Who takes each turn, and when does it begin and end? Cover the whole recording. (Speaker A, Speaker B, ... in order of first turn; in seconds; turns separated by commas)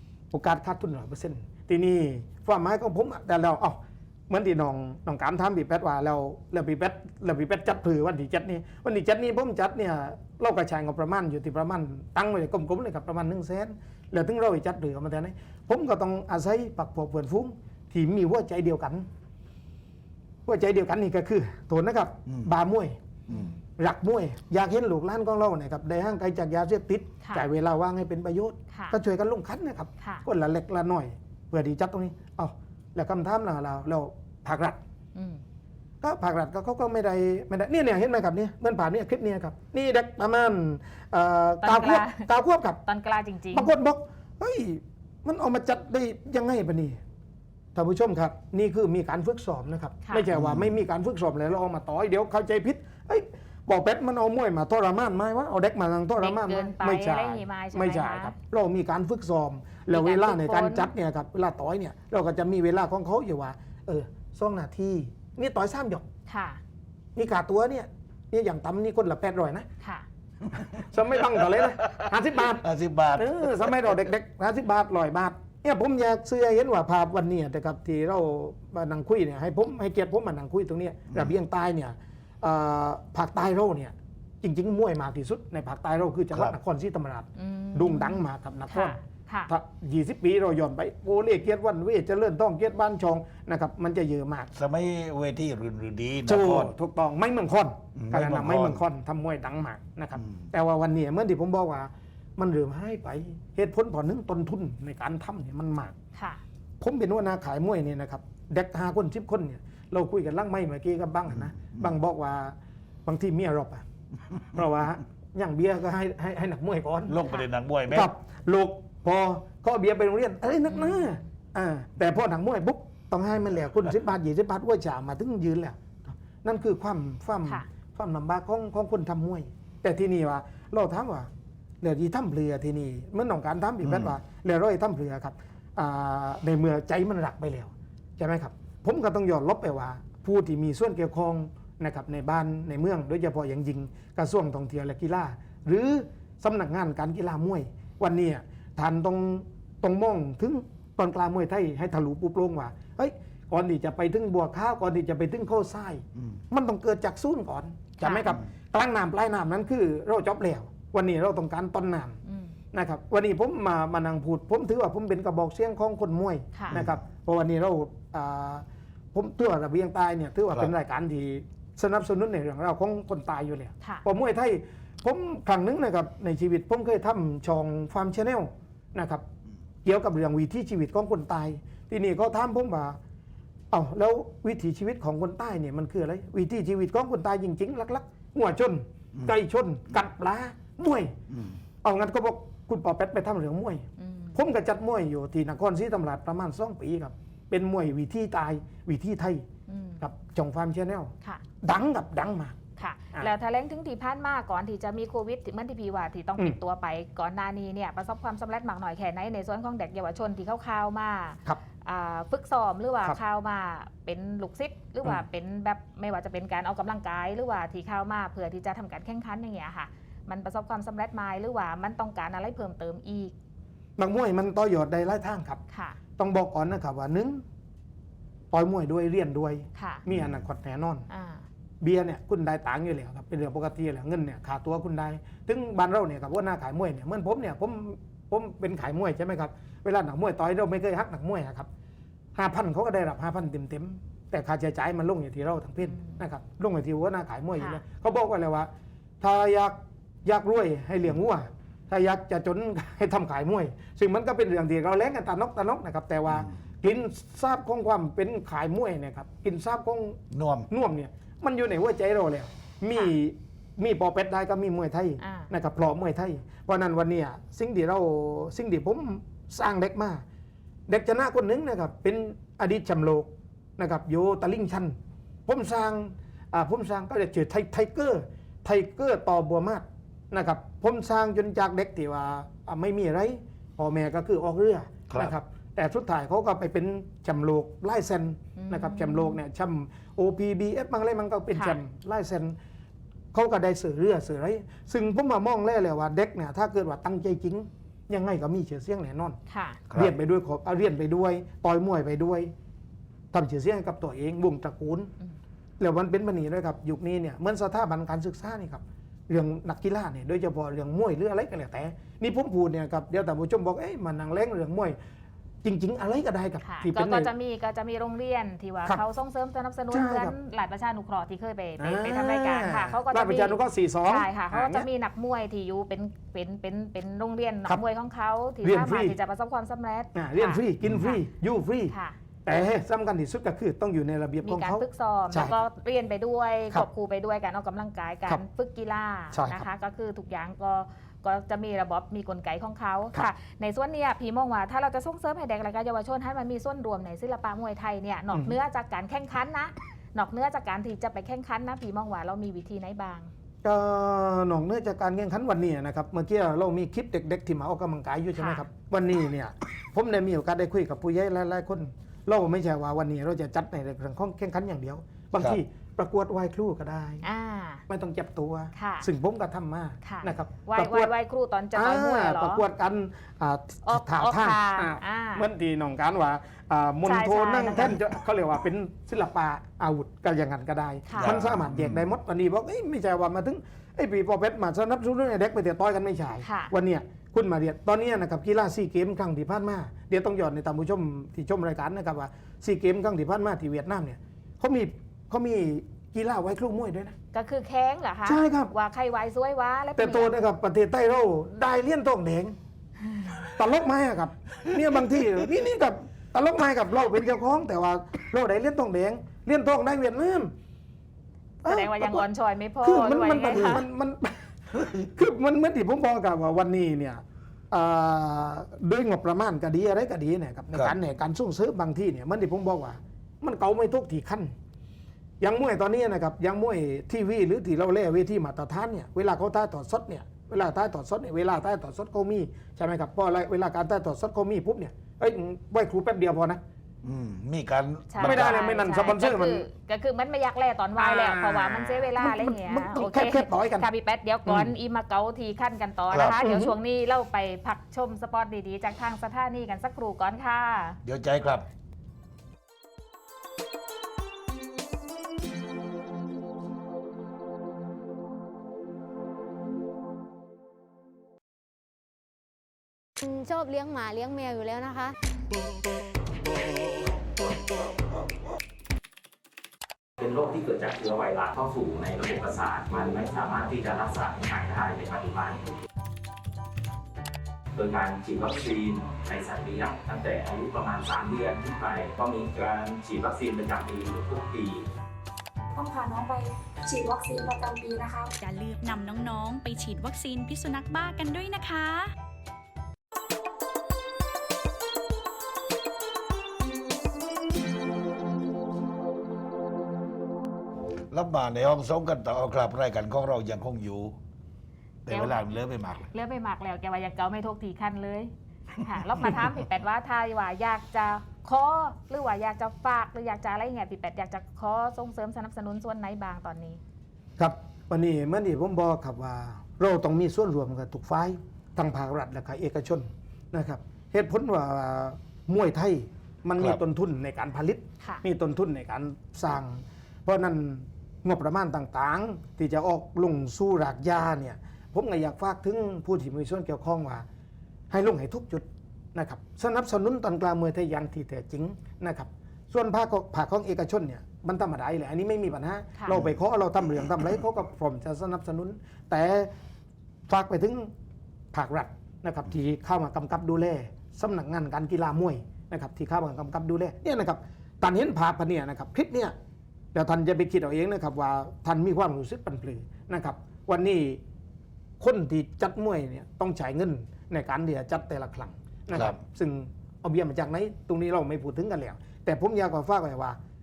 Speaker A: 0.3-19.1, Speaker A: 20.5-23.0, Speaker A: 23.8-34.8, Speaker B: 28.7-29.0, Speaker B: 30.0-30.3, Speaker B: 35.1-35.4, Speaker A: 36.0-42.8, Speaker B: 41.6-42.2, Speaker B: 42.9-43.7, Speaker A: 43.5-47.0, Speaker A: 47.8-66.0, Speaker C: 50.3-50.8, Speaker B: 56.2-58.4, Speaker B: 59.9-60.9, Speaker B: 66.3-66.6, Speaker A: 67.2-69.7, Speaker B: 69.8-70.1, Speaker A: 70.8-89.0, Speaker C: 71.4-72.0, Speaker C: 72.6-73.9, Speaker C: 86.3-86.6, Speaker B: 87.4-89.5, Speaker A: 89.5-94.5, Speaker C: 94.5-96.7, Speaker A: 96.3-106.0, Speaker C: 98.0-98.8, Speaker C: 100.2-100.5, Speaker B: 106.2-106.4, Speaker A: 106.8-112.5, Speaker C: 111.3-111.9, Speaker A: 113.1-113.8, Speaker A: 114.5-117.2, Speaker C: 117.1-118.1, Speaker A: 117.9-131.3, Speaker B: 120.7-121.2, Speaker A: 131.8-162.2, Speaker C: 133.8-134.2, Speaker B: 158.0-158.3, Speaker B: 162.3-162.6, Speaker A: 162.7-179.2, Speaker C: 166.7-167.0, Speaker A: 179.8-183.0, Speaker A: 183.7-191.2, Speaker C: 191.3-191.6, Speaker A: 191.8-199.5, Speaker B: 194.0-194.4, Speaker B: 199.7-200.0, Speaker A: 200.0-202.6, Speaker B: 202.8-223.3, Speaker A: 224.0-225.6, Speaker B: 225.7-226.0, Speaker A: 226.2-227.4, Speaker A: 228.5-231.1, Speaker B: 229.8-230.1, Speaker C: 230.1-230.4, Speaker B: 231.1-231.4, Speaker A: 231.8-241.7, Speaker A: 242.4-248.7, Speaker B: 245.8-246.2, Speaker B: 247.6-247.8, Speaker A: 249.2-270.2, Speaker C: 260.3-260.7, Speaker B: 265.2-265.5, Speaker A: 270.9-275.0, Speaker A: 275.5-292.6, Speaker C: 285.1-285.4, Speaker B: 288.6-289.4, Speaker A: 293.3-299.4, Speaker B: 299.5-299.8, Speaker C: 299.9-300.1, Speaker A: 299.9-302.5, Speaker A: 303.3-305.1, Speaker A: 305.8-315.0, Speaker A: 315.6-317.3, Speaker B: 316.6-331.2, Speaker A: 319.9-320.3, Speaker A: 321.8-324.9, Speaker A: 328.6-329.2, Speaker A: 330.1-335.6, Speaker B: 331.9-332.2, Speaker B: 334.4-353.3, Speaker A: 339.3-339.6, Speaker A: 353.6-367.2, Speaker B: 358.4-358.6, Speaker B: 367.2-367.8, Speaker A: 367.9-371.1, Speaker B: 368.8-369.1, Speaker B: 370.0-372.6, Speaker A: 371.8-397.2, Speaker B: 373.9-375.5, Speaker B: 377.0-378.0, Speaker B: 381.1-381.3, Speaker C: 381.2-382.1, Speaker B: 386.4-386.7, Speaker B: 397.3-400.3, Speaker A: 398.3-398.7, Speaker A: 400.0-402.6, Speaker B: 403.1-403.4, Speaker A: 403.5-410.5, Speaker A: 411.6-412.3, Speaker B: 411.7-413.9, Speaker A: 412.8-414.5, Speaker A: 415.0-424.5, Speaker A: 425.4-436.6, Speaker C: 437.0-438.6, Speaker B: 438.1-451.0, Speaker A: 438.2-439.6, Speaker A: 441.0-443.9, Speaker C: 446.1-446.4, Speaker A: 446.4-446.7, Speaker C: 451.0-451.7, Speaker D: 463.2-465.1, Speaker E: 470.2-475.7, Speaker E: 477.7-484.9, Speaker F: 485.8-488.3, Speaker G: 488.4-492.1, Speaker C: 501.1-504.2, Speaker C: 505.1-506.1, Speaker B: 505.1-505.5, Speaker B: 506.1-516.8, Speaker A: 517.4-537.2, Speaker A: 537.9-549.5, Speaker C: 546.1-546.4, Speaker A: 550.3-550.9, Speaker A: 551.5-559.4, Speaker A: 559.9-564.2, Speaker A: 565.0-573.4, Speaker C: 568.9-569.2